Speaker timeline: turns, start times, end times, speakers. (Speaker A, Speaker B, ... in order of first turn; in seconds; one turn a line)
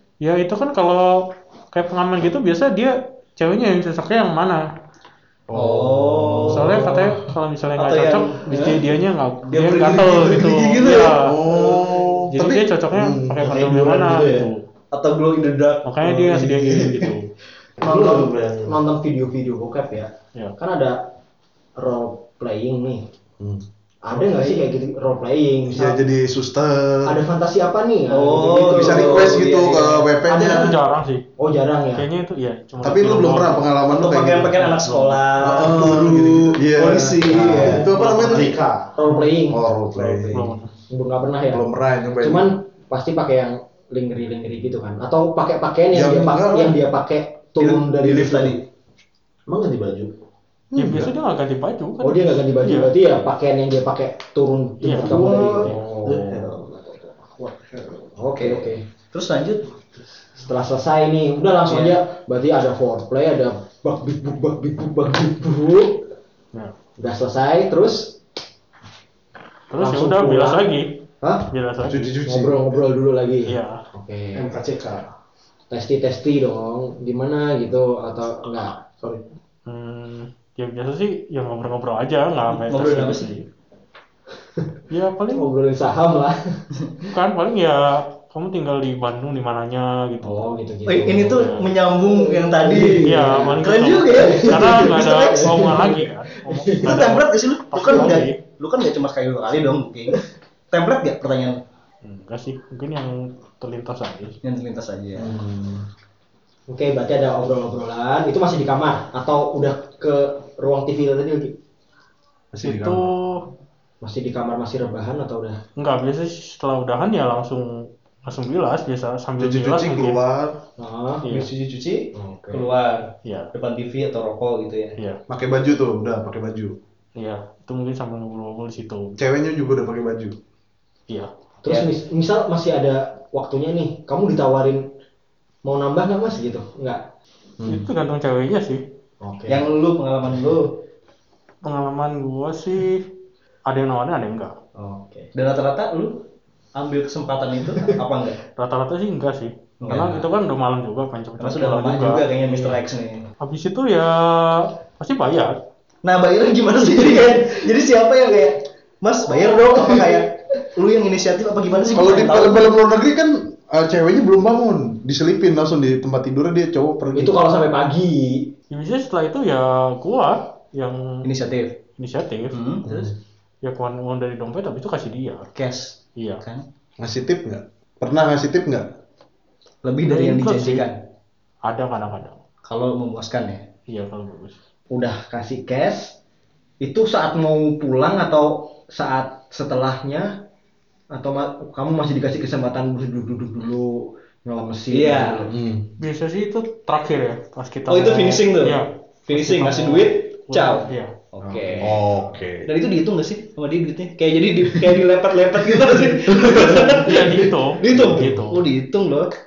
Speaker A: 0.2-4.6
Speaker B: 5.5-6.7
Speaker C: 5.5-6.9
Speaker A: 6.4-11.4
Speaker C: 7.8-8.9
Speaker C: 9.5-11.9
Speaker B: 11.0-13.6
Speaker A: 12.3-14.6
Speaker D: 13.6-14.4
Speaker C: 14.9-16.5
Speaker A: 15.8-17.3
Speaker E: 17.8-21.0
Speaker D: 17.8-18.7
Speaker E: 21.8-23.0
Speaker E: 24.0-26.0
Speaker B: 25.7-27.2
Speaker E: 27.1-29.3
Speaker C: 28.1-30.1
Speaker B: 28.7-30.8
Speaker E: 30.3-30.7
Speaker A: 30.3-31.2
Speaker E: 31.4-32.1
Speaker A: 31.9-33.6
Speaker B: 32.8-34.5
Speaker C: 33.9-36.5
Speaker A: 34.5-35.2
Speaker B: 35.4-40.5
Speaker E: 36.8-38.0
Speaker D: 37.4-38.9
Speaker C: 37.7-38.5
Speaker E: 38.9-39.6
Speaker A: 40.0-40.7
Speaker E: 40.9-41.6
Speaker B: 41.5-42.5
Speaker E: 42.2-48.6
Speaker B: 45.9-46.8
Speaker C: 48.0-48.5
Speaker D: 48.0-48.5
Speaker D: 49.5-50.1
Speaker A: 50.8-52.9
Speaker E: 52.0-56.6
Speaker A: 54.8-56.0
Speaker D: 56.0-57.8
Speaker E: 57.7-58.8
Speaker C: 58.3-59.7
Speaker E: 60.4-66.1
Speaker C: 61.7-62.0
Speaker E: 67.0-68.2
Speaker A: 69.7-72.2
Speaker E: 69.8-70.7
Speaker E: 71.2-71.5
Speaker B: 71.8-72.8
Speaker E: 72.2-74.5
Speaker A: 73.5-73.8
Speaker D: 74.3-75.1
Speaker E: 75.7-78.9
Speaker A: 79.7-83.4
Speaker C: 82.5-83.3
Speaker A: 84.9-85.5
Speaker E: 85.3-86.4
Speaker A: 87.0-90.5
Speaker E: 90.2-91.4
Speaker C: 90.9-95.2
Speaker A: 91.2-91.7
Speaker E: 92.0-97.0
Speaker A: 92.9-98.4
Speaker C: 96.8-101.6
Speaker A: 102.0-104.4
Speaker C: 104.4-105.3
Speaker B: 105.2-105.8
Speaker E: 106.7-111.5
Speaker B: 112.5-113.1
Speaker A: 112.6-113.5
Speaker E: 114.0-115.6
Speaker A: 115.8-120.2
Speaker B: 119.4-120.6
Speaker E: 120.8-121.2
Speaker A: 121.2-121.5
Speaker C: 121.3-125.0
Speaker E: 122.1-122.7
Speaker A: 123.2-123.5
Speaker B: 125.3-126.8
Speaker A: 127.2-129.2
Speaker B: 129.2-130.4
Speaker E: 131.6-134.8
Speaker E: 135.7-137.0
Speaker B: 137.6-137.8
Speaker A: 137.7-138.8
Speaker E: 139.2-139.7
Speaker C: 139.5-140.8
Speaker A: 141.6-143.1
Speaker A: 143.7-144.5
Speaker E: 144.8-145.3
Speaker C: 145.3-146.2
Speaker C: 146.8-148.4
Speaker A: 148.6-152.7
Speaker C: 149.8-150.3
Speaker C: 151.4-153.3
Speaker A: 153.4-155.6
Speaker C: 156.0-162.6
Speaker E: 156.8-157.7
Speaker E: 159.3-160.2
Speaker B: 161.9-167.4
Speaker E: 167.2-168.5
Speaker A: 168.7-171.3
Speaker C: 171.2-171.8
Speaker A: 172.0-172.8
Speaker C: 172.5-173.1
Speaker B: 172.9-173.1
Speaker A: 173.6-175.5
Speaker C: 175.5-176.7
Speaker A: 176.2-176.4
Speaker B: 177.0-178.9
Speaker C: 179.8-181.0
Speaker A: 180.0-180.9
Speaker A: 181.7-182.3
Speaker C: 182.7-183.7
Speaker A: 183.9-184.6
Speaker E: 184.9-186.2
Speaker E: 186.8-190.3
Speaker E: 191.1-195.5
Speaker C: 194.9-195.3
Speaker B: 195.5-195.9
Speaker A: 196.0-201.1
Speaker C: 197.9-202.0
Speaker E: 201.4-202.2
Speaker B: 201.8-202.7
Speaker C: 202.7-209.3
Speaker B: 206.3-207.0
Speaker A: 206.5-208.6
Speaker B: 207.9-208.2